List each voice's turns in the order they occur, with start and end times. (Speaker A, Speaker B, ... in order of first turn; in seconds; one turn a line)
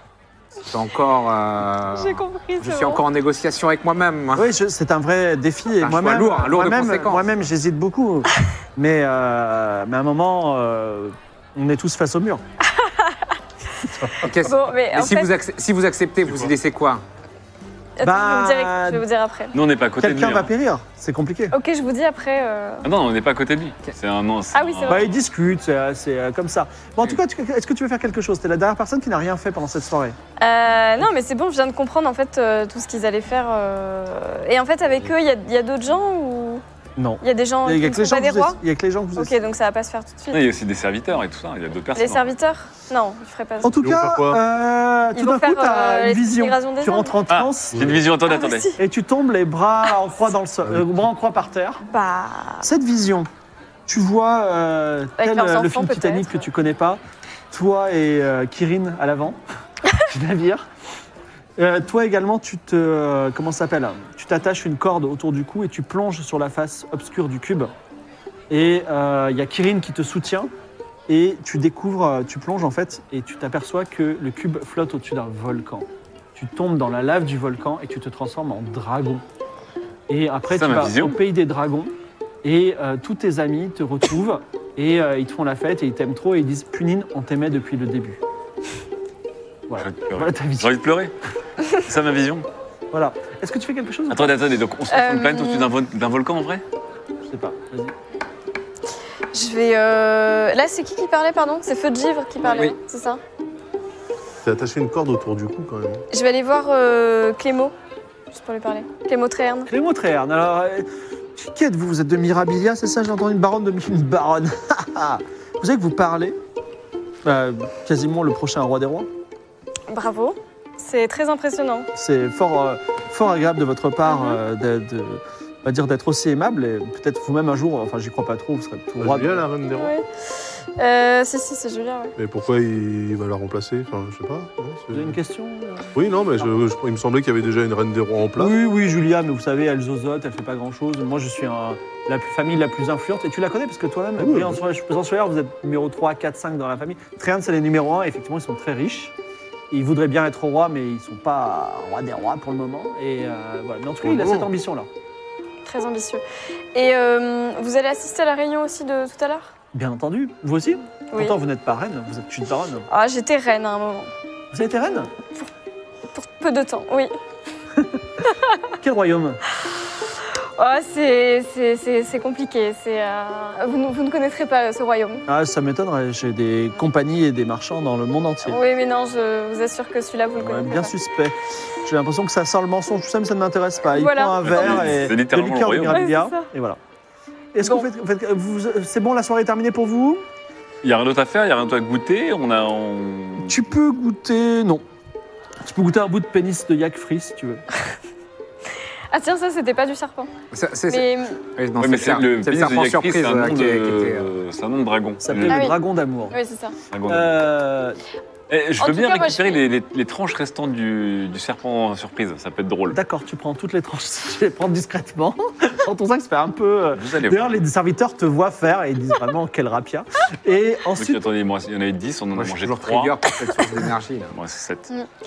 Speaker A: 0.7-4.5
Speaker B: 1.9-3.0
Speaker C: 4.3-12.4
Speaker A: 5.8-7.5
Speaker B: 12.7-13.3
Speaker A: 14.2-17.0
Speaker B: 14.2-15.3
Speaker D: 16.3-16.5
Speaker B: 18.0-19.6
Speaker C: 18.0-19.0
Speaker E: 19.5-20.5
Speaker C: 20.0-21.6
Speaker B: 21.5-22.9
Speaker E: 22.9-25.1
Speaker B: 24.5-25.1
Speaker C: 24.9-30.2
Speaker B: 30.4-36.6
Speaker C: 37.0-39.4
Speaker B: 37.2-38.6
Speaker B: 39.2-40.4
Speaker E: 40.3-42.3
Speaker B: 42.0-43.7
Speaker C: 43.6-47.8
Speaker D: 43.8-44.4
Speaker B: 45.1-47.2
Speaker E: 47.3-48.7
Speaker D: 47.8-48.0
Speaker B: 48.3-48.8
Speaker C: 48.8-51.8
Speaker B: 51.9-52.7
Speaker C: 52.6-53.3
Speaker C: 53.9-57.0
Speaker B: 55.2-56.5
Speaker C: 57.5-59.4
Speaker C: 60.0-60.7
Speaker C: 61.6-67.7
Speaker C: 68.5-70.5
Speaker C: 71.1-79.2
Speaker C: 80.1-81.9
Speaker E: 80.5-81.2
Speaker C: 82.4-88.2
Speaker C: 89.7-90.7
Speaker E: 89.8-91.1
Speaker E: 91.7-92.5
Speaker C: 92.9-94.4
Speaker E: 94.1-96.6
Speaker B: 94.9-95.7
Speaker C: 97.3-97.9
Speaker B: 99.3-103.2
Speaker A: 102.4-102.8
Speaker D: 104.4-106.0
Speaker B: 106.1-107.7
Speaker B: 108.3-109.7
Speaker C: 109.7-116.4
Speaker C: 117.2-119.1
Speaker B: 119.9-121.9
Speaker C: 121.9-129.4
Speaker B: 124.1-124.4
Speaker D: 129.0-129.9
Speaker B: 129.7-130.1
Speaker B: 130.8-132.2
Speaker D: 132.2-135.2
Speaker C: 134.9-135.9
Speaker D: 135.9-138.6
Speaker C: 138.4-149.1
Speaker D: 144.2-144.6
Speaker C: 149.7-154.9
Speaker D: 154.0-154.5
Speaker B: 155.7-156.2
Speaker B: 156.7-159.5
Speaker C: 159.7-162.9
Speaker B: 162.9-164.1
Speaker C: 164.5-165.2
Speaker B: 166.1-167.1
Speaker B: 168.2-168.7
Speaker C: 168.8-169.4
Speaker B: 170.2-175.2
Speaker C: 175.3-178.6
Speaker B: 178.5-180.9
Speaker C: 180.4-186.8
Speaker B: 183.9-185.0
Speaker E: 184.4-186.1
Speaker B: 185.9-186.5
Speaker C: 187.6-190.2
Speaker E: 190.8-193.7
Speaker C: 193.4-194.8
Speaker C: 195.6-197.7
Speaker B: 199.1-200.3
Speaker A: 200.5-204.3
Speaker B: 200.9-201.4
Speaker E: 201.8-205.7
Speaker C: 205.2-206.4
Speaker B: 205.5-205.8
Speaker B: 206.3-206.8
Speaker E: 206.9-207.4
Speaker C: 207.1-208.0
Speaker E: 208.5-213.0
Speaker B: 208.8-209.6
Speaker C: 212.9-221.2
Speaker E: 217.0-217.6
Speaker E: 221.0-223.2
Speaker A: 222.3-224.4
Speaker E: 224.3-224.9